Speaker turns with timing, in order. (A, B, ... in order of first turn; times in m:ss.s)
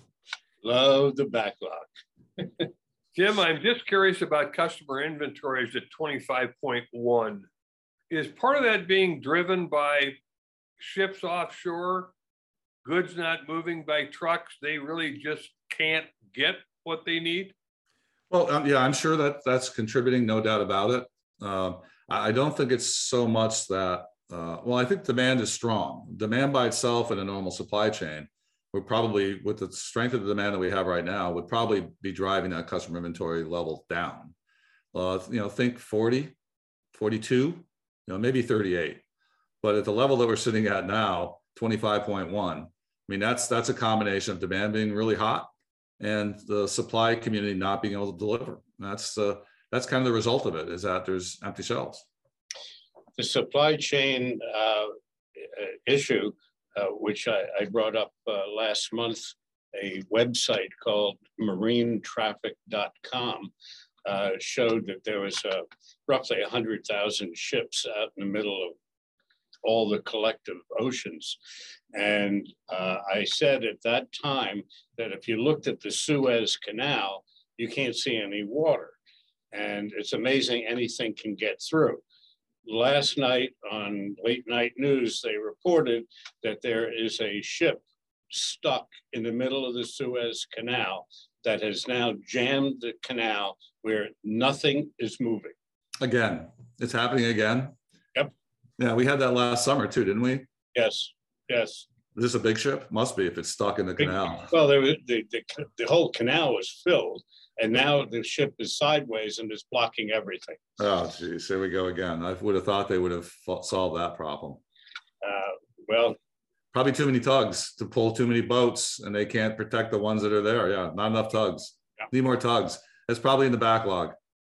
0:00.6-0:02.6 A
0:03.2-0:07.5 B
0:08.1-0:10.2 B
0:10.8-0:12.1 B
0:12.8-0:17.5 B
0:18.3-0:34.3 C
0:34.9-0:36.4 C
0:36.9-0:39.0 C
0:39.6-0:45.5 C
0:46.0-0:52.1 C
0:53.2-1:03.5 A
1:04.0-1:08.8 A
1:09.6-1:11.4 A
1:11.9-1:19.0 A
1:19.5-1:22.0 A
1:22.6-1:35.6 A
1:36.0-1:37.8 C
1:38.8-1:40.5 C
1:40.8-1:41.9 A
1:42.1-1:44.5 C
1:44.0-1:50.6 A
1:50.8-1:54.6 C
1:55.2-1:56.2 A
1:56.7-2:04.1 C